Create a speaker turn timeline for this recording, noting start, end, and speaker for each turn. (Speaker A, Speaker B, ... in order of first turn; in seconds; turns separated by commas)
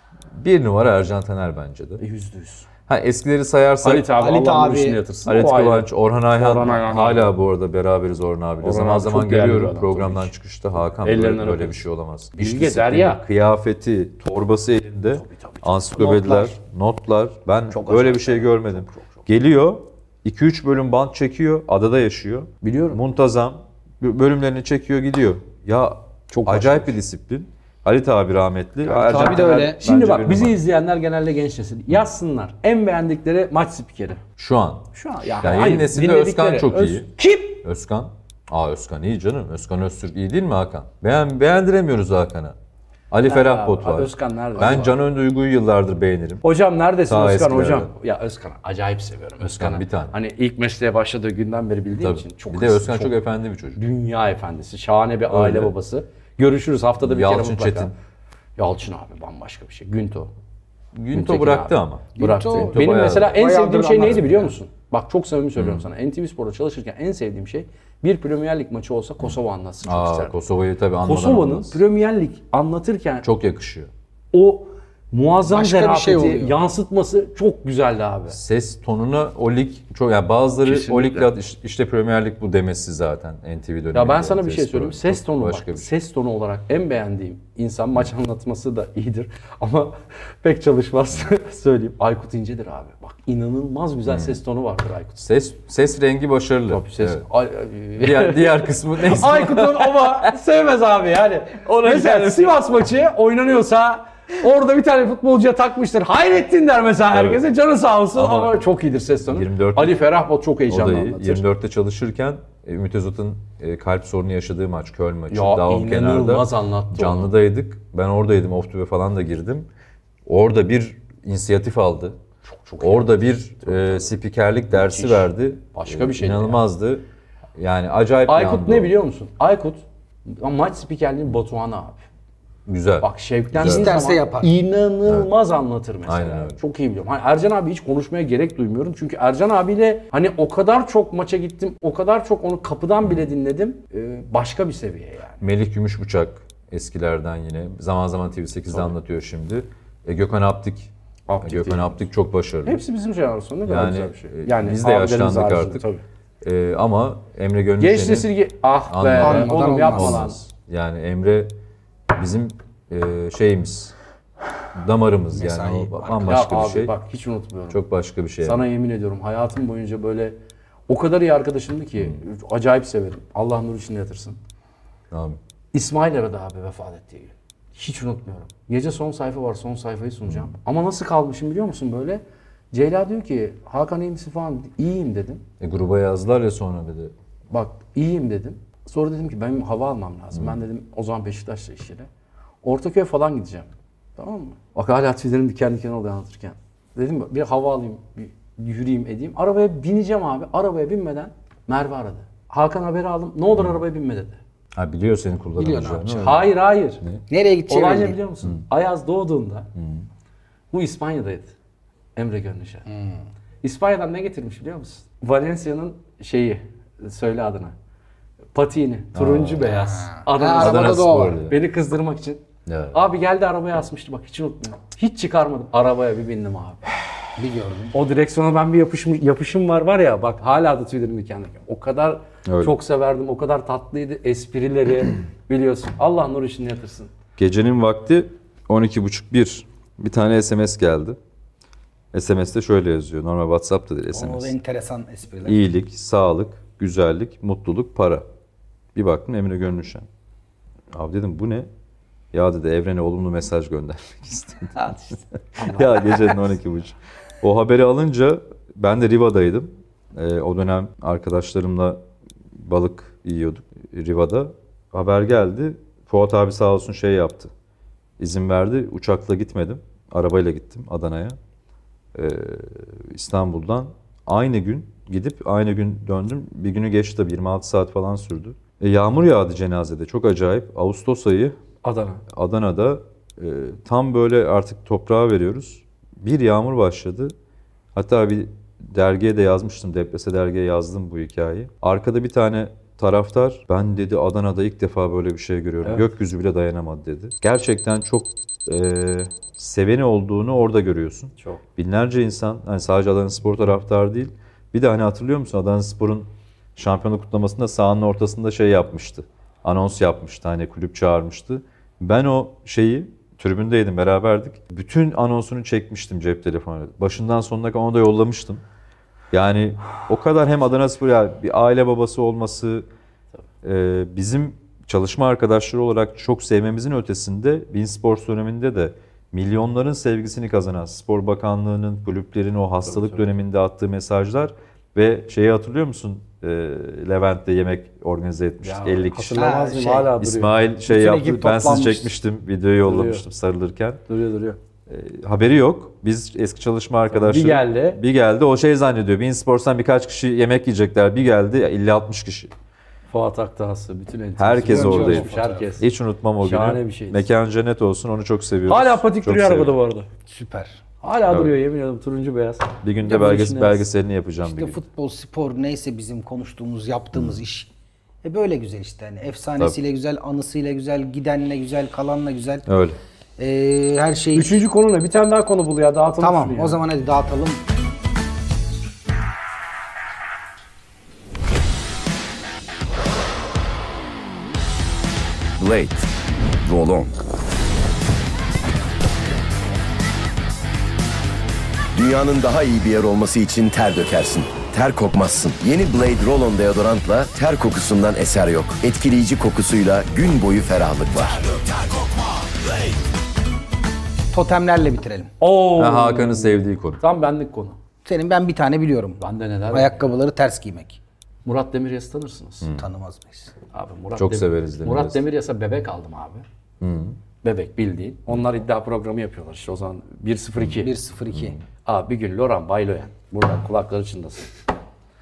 Speaker A: 0.3-2.0, Speaker B: 2.0-2.7, Speaker A: 2.9-4.1, Speaker B: 3.8-7.3, Speaker C: 4.2-5.0, Speaker A: 5.3-30.6, Speaker B: 8.6-10.3, Speaker B: 11.0-11.8, Speaker B: 12.4-13.2, Speaker B: 15.1-15.7, Speaker C: 16.0-16.5, Speaker B: 17.7-19.2, Speaker B: 22.6-23.0, Speaker B: 26.3-26.9, Speaker C: 28.9-29.8, Speaker B: 29.0-34.2, Speaker A: 34.4-34.9, Speaker B: 34.9-37.6, Speaker A: 35.4-37.1, Speaker A: 37.6-42.5, Speaker A: 43.1-46.4, Speaker B: 43.2-45.0, Speaker B: 46.4-53.1, Speaker A: 47.1-47.9, Speaker A: 49.4-50.1, Speaker A: 52.0-53.8, Speaker B: 53.8-57.9, Speaker A: 55.3-55.7, Speaker A: 57.0-57.9, Speaker B: 58.6-60.3, Speaker A: 61.0-63.4, Speaker B: 61.1-70.3, Speaker C: 62.2-64.5, Speaker A: 65.6-65.8, Speaker A: 69.8-71.8, Speaker B: 71.0-73.3, Speaker A: 73.2-73.9, Speaker B: 74.3-78.4, Speaker C: 75.5-76.5, Speaker A: 78.3-85.9, Speaker B: 80.6-81.3, Speaker B: 83.9-95.3, Speaker A: 94.1-94.4, Speaker A: 95.2-97.3, Speaker B: 96.7-111.5, Speaker A: 98.0-100.3, Speaker A: 101.6-102.6, Speaker A: 107.1-107.4, Speaker A: 108.2-108.5, Speaker A: 109.3-110.0, Speaker A: 110.7-119.7, Speaker B: 115.3-117.3, Speaker A: 120.3-122.2, Speaker B: 122.5-124.1, Speaker A: 122.8-127.0, Speaker B: 124.7-126.6, Speaker A: 127.6-128.9, Speaker B: 128.3-132.0, Speaker A: 132.7-134.0, Speaker B: 133.0-145.4, Speaker C: 133.6-134.5, Speaker A: 136.1-136.6, Speaker A: 145.4-150.9, Speaker B: 151.3-151.9, Speaker A: 151.4-152.8, Speaker B: 152.7-156.0, Speaker A: 153.7-155.8, Speaker A: 156.4-158.3, Speaker B: 157.8-160.4, Speaker A: 158.9-161.5, Speaker C: 159.2-160.3, Speaker A: 162.1-163.9, Speaker A: 164.8-166.9, Speaker C: 165.3-166.4, Speaker B: 166.3-167.8, Speaker A: 167.7-168.6, Speaker B: 168.4-170.4, Speaker B: 170.9-174.4, Speaker A: 175.1-175.4, Speaker B: 175.7-185.4, Speaker A: 185.6-187.1, Speaker B: 187.5-192.1, Speaker B: 192.6-204.4, Speaker A: 204.8-207.2, Speaker C: 205.6-206.4, Speaker B: 206.2-207.0, Speaker C: 207.3-208.2, Speaker B: 207.7-209.7, Speaker A: 209.8-210.1, Speaker B: 210.7-211.6, Speaker B: 212.2-212.8, Speaker C: 212.9-213.2, Speaker B: 213.6-217.7, Speaker B: 218.5-226.8, Speaker A: 219.2-219.7, Speaker C: 219.7-221.4, Speaker A: 220.4-221.6, Speaker A: 222.7-223.0, Speaker C: 227.4-227.9, Speaker B: 227.9-237.1, Speaker A: 232.5-232.7, Speaker A: 237.4-241.2, Speaker A: 242.1-244.5, Speaker C: 244.1-245.6, Speaker A: 245.5-248.2, Speaker A: 248.9-250.1, Speaker A: 250.9-251.7, Speaker A: 252.3-254.8, Speaker B: 255.6-256.6, Speaker A: 255.6-262.0, Speaker A: 262.6-267.5, Speaker A: 268.2-271.4, Speaker A: 272.1-281.6, Speaker B: 281.8-282.2, Speaker A: 282.3-287.3, Speaker A: 287.9-318.6, Speaker A: 319.3-322.9, Speaker A: 323.6-339.4, Speaker B: 332.9-333.2, Speaker B: 338.6-340.5, Speaker C: 339.3-340.1, Speaker A: 340.2-344.0, Speaker C: 340.9-342.1, Speaker B: 342.8-343.2, Speaker B: 344.1-344.6, Speaker A: 344.9-352.5, Speaker B: 347.1-348.0, Speaker B: 353.1-355.9, Speaker A: 354.4-359.7, Speaker C: 354.7-355.7, Speaker B: 356.4-357.2, Speaker B: 358.7-360.1, Speaker C: 360.3-360.8, Speaker B: 361.0-363.9, Speaker A: 361.3-361.5, Speaker A: 362.8-364.8, Speaker C: 364.4-367.7, Speaker C: 368.2-372.6, Speaker A: 372.7-373.0, Speaker C: 373.4-374.6, Speaker B: 374.3-376.8, Speaker C: 376.2-377.6, Speaker D: 385.6-387.1, Speaker D: 391.9-402.0, Speaker C: 404.3-405.3, Speaker B: 405.4-407.8, Speaker A: 405.8-407.0, Speaker C: 408.1-411.0, Speaker B: 409.2-410.1, Speaker B: 411.4-412.7, Speaker C: 412.8-413.5, Speaker B: 413.7-416.4, Speaker A: 414.2-415.2, Speaker A: 416.8-417.2, Speaker B: 417.4-420.9, Speaker C: 420.8-421.6, Speaker A: 421.3-421.6, Speaker B: 421.9-424.5